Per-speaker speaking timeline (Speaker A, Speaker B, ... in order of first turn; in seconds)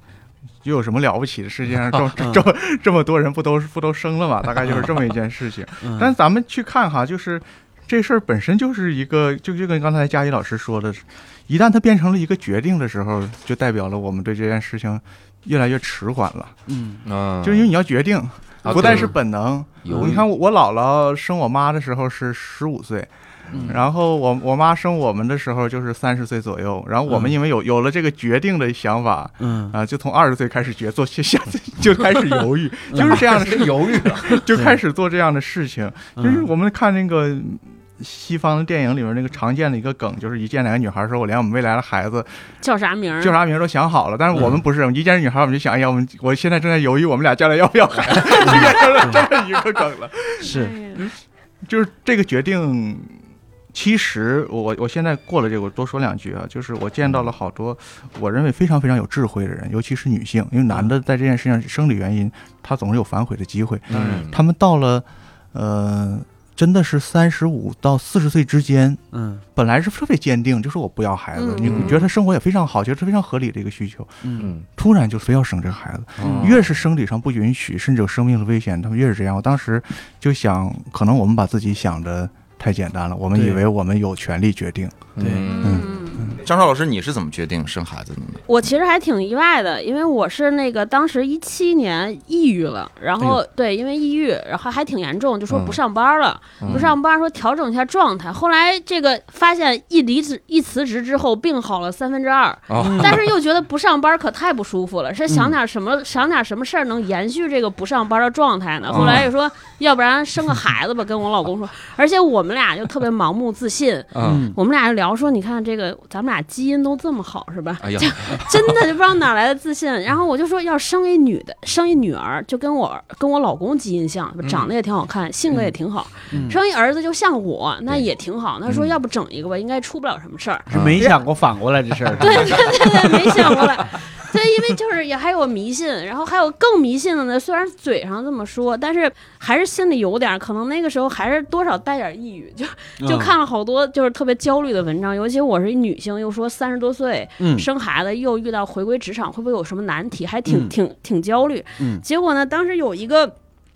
Speaker A: 0.6-16.6, 17.4-23.1, 23.7-42.3, 43.2-51.1, 51.6-53.2, 53.7-69.0, 69.5-85.1, 85.6-85.9
Speaker B: 2.2-2.5, 4.7-4.9, 5.8-6.2, 16.7-17.0, 19.9-20.2, 23.5-23.9, 27.1-27.4, 29.4-29.7, 32.9-33.3, 34.5-34.8, 36.2-36.5, 44.3-44.6, 48.4-49.3, 50.4-50.8, 63.9-64.3, 69.1-69.4, 74.2-74.5, 76.2-76.6, 83.3-83.6, 85.2-85.8, 102.8-103.2, 109.0-109.3, 114.2-114.6, 126.3-126.6, 130.7-133.7, 143.0-143.4, 147.4-147.7, 150.5-150.8, 151.8-152.1
Speaker C: 17.0-17.7, 18.6-19.2, 19.9-20.2, 23.5-23.8, 33.0-34.4, 63.9-64.4, 71.6-72.0, 74.4-74.6, 76.2-76.8, 85.2-85.9, 95.5-95.8, 96.6-97.0, 102.7-103.3, 108.9-109.3, 114.1-114.4, 117.8-118.8, 124.4-124.7, 130.7-131.0, 132.2-132.7
Speaker D: 18.6-19.1, 42.6-43.4, 50.5-51.0, 71.4-72.1, 85.5-86.4, 88.5-131.2, 132.2-153.3
Speaker E: 86.4-88.5